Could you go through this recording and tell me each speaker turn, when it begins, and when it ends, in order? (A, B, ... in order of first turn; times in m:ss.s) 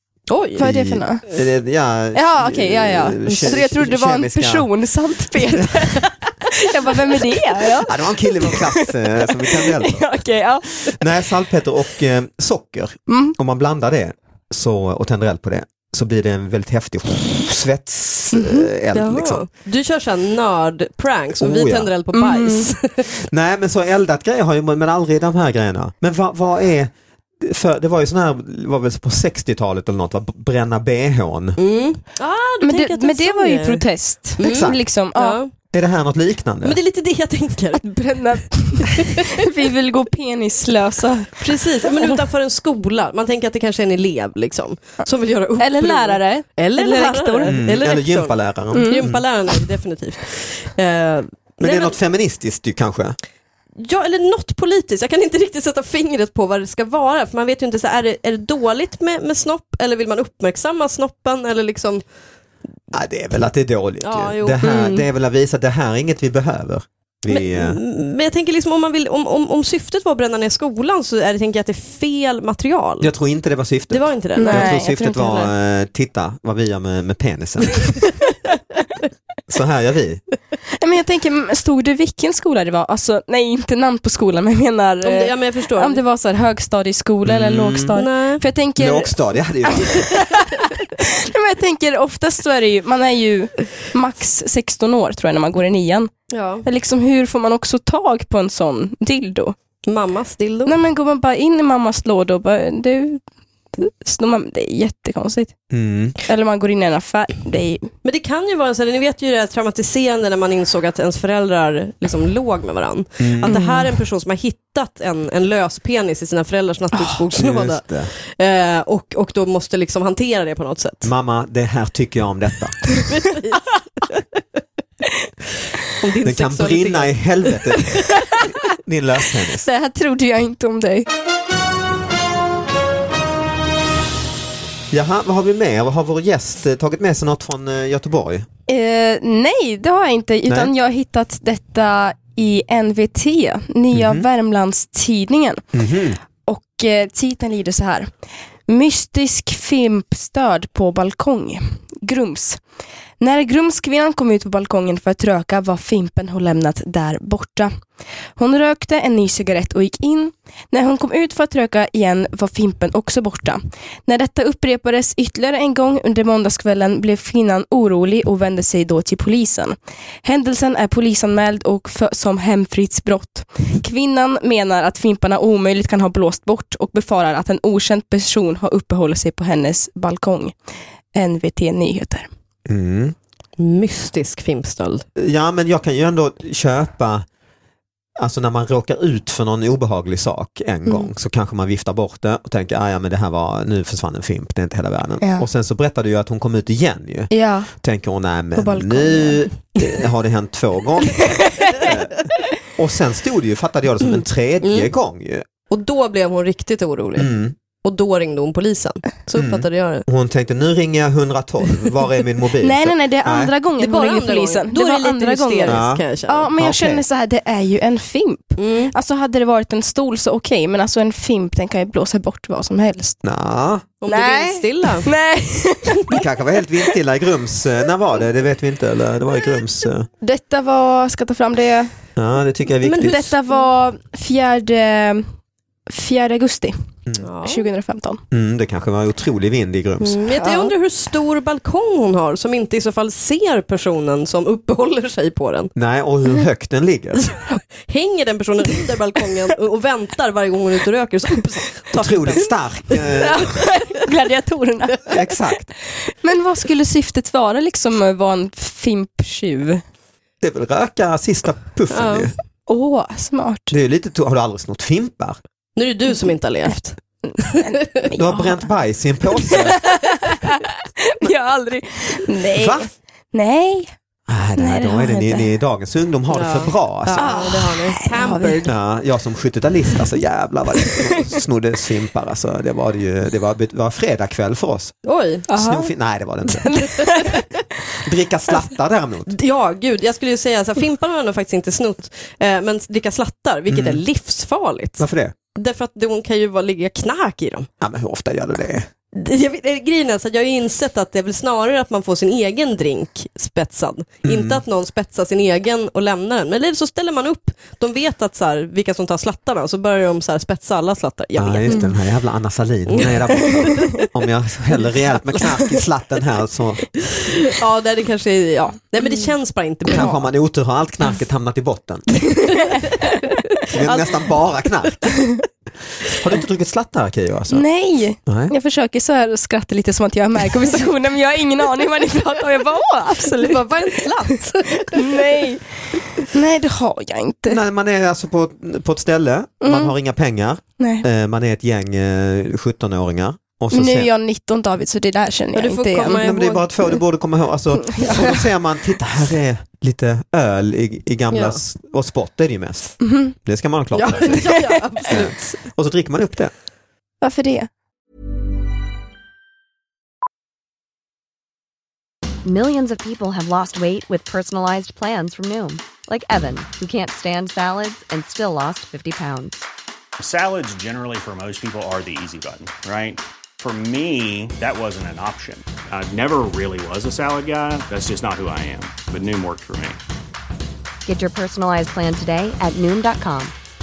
0:00.3-0:00.6 A
0:00.6-0:04.7 B
0:00.6-0:01.2 C
0:02.1-0:11.0 C
0:07.8-0:10.1 B
0:10.8-0:19.4 B
0:13.1-0:13.3 C
0:18.3-0:18.6 C
0:18.9-0:23.2 A
0:21.4-0:21.9 B
0:22.1-0:22.7 C
0:23.2-0:31.6 B
0:31.6-0:33.8 A
0:32.6-0:35.4 C
0:34.4-0:35.5 A
0:34.4-0:34.8 B
0:35.7-0:36.8 B
0:36.6-0:37.9 A
0:37.8-0:41.4 C
0:41.4-0:52.0 A
0:45.6-0:47.6 C
0:47.5-0:49.2 B
0:48.7-0:49.1 C
0:51.6-0:53.2 B
0:53.8-1:02.0 A
1:02.9-1:07.8 B
1:04.0-1:04.6 A
1:04.6-1:05.0 C
1:07.3-1:13.1 A
1:13.0-1:18.0 B
1:13.9-1:14.7 A
1:14.4-1:15.5 C
1:19.5-1:20.2 B
1:20.8-1:29.1 C
1:25.0-1:26.0 A
1:27.2-1:27.9 B
1:27.9-1:28.4 A
1:28.8-1:30.1 B
1:29.8-1:36.1 C
1:36.3-1:36.6 A
1:36.6-1:39.6 C
1:39.8-1:40.7 A
1:40.6-1:43.2 C
1:43.8-1:45.5 C
1:45.7-1:46.2 B
1:46.2-1:47.9 C
1:48.0-2:01.1 A
1:53.2-1:53.6 B
1:53.5-1:53.9 C
1:57.3-1:58.1 B
2:01.0-2:02.8 B
2:03.0-2:04.2 A
2:06.0-2:07.7 A
2:06.2-2:09.7 B
2:09.6-2:11.1 C
2:14.9-2:18.5 B
2:18.7-2:25.6 C
2:20.5-2:20.7 B
2:23.9-2:24.2 B
2:25.7-2:26.2 B
2:26.4-2:28.1 C
2:28.7-2:32.6 C
2:33.2-2:37.7 C
2:38.4-3:00.5 C
3:01.1-3:02.3 C
3:02.6-3:03.2 B
3:03.6-3:05.0 A
3:05.2-3:07.2 B
3:08.2-3:25.4 B
3:17.3-3:17.7 C
3:18.6-3:19.4 C
3:21.6-3:21.8 C
3:24.6-3:24.9 A
3:25.7-3:30.0 A
3:27.2-3:27.5 B
3:29.3-3:33.5 B
3:32.6-3:43.2 C
3:33.8-3:36.5 A
3:35.6-3:36.0 B
3:36.5-3:37.0 B
3:38.6-3:38.9 A
3:43.2-3:43.8 B
3:44.0-3:45.1 A
3:44.1-3:46.1 C
3:46.1-3:50.1 B
3:50.2-3:51.9 C
3:52.2-3:53.2 B
3:52.8-3:53.6 A
3:53.0-3:55.3 C
3:55.9-3:56.7 C
3:57.2-3:57.7 A
3:57.4-3:58.2 C
3:58.3-4:00.2 B
4:00.0-4:05.7 A
4:00.4-4:00.7 C
4:05.8-4:07.3 B
4:07.3-4:13.2 A
4:11.9-4:13.6 B
4:13.2-4:15.2 C
4:15.1-4:15.7 B
4:16.1-4:19.8 C
4:20.4-4:22.3 B
4:21.9-4:22.3 A
4:22.7-4:23.7 C
4:23.7-4:25.4 B
4:25.8-4:27.9 A
4:27.3-4:28.6 C
4:28.1-4:29.8 B
4:29.4-4:33.9 C
4:32.5-4:32.9 B
4:34.3-4:37.4 B
4:34.6-4:35.5 C
4:36.3-4:38.7 A
4:37.2-4:38.6 C
4:38.6-4:44.9 B
4:45.0-4:45.5 A
4:45.5-4:45.9 C
4:45.5-4:47.2 B
4:46.6-4:47.4 C
4:47.0-4:47.4 A
4:48.0-4:49.3 B
4:49.3-4:57.7 A
4:53.7-4:54.0 B
4:55.0-4:55.3 B
4:57.8-4:58.9 B
4:59.1-5:11.8 A
5:04.2-5:04.6 B
5:11.4-5:17.0 B
5:12.9-5:14.0 A
5:17.5-5:20.2 A
5:19.9-5:22.3 B
5:22.5-5:23.1 C
5:23.7-5:25.3 B
5:23.8-5:24.3 A
5:26.2-5:27.6 B
5:27.5-5:34.1 C
5:28.2-5:28.5 B
5:33.3-5:35.3 A
5:34.8-5:35.7 C
5:36.2-5:37.6 C
5:37.5-5:44.1 B
5:39.6-5:39.9 C
5:40.8-5:41.0 C
5:43.7-5:46.2 C
5:45.5-5:46.7 A
5:46.1-5:56.5 B
5:47.9-5:48.3 C
5:51.3-5:51.6 A
5:53.0-5:53.3 C
5:53.9-5:55.6 A
5:57.2-5:57.7 C
6:02.4-6:09.6 D
6:10.2-6:20.0 E
6:21.0-6:23.5 D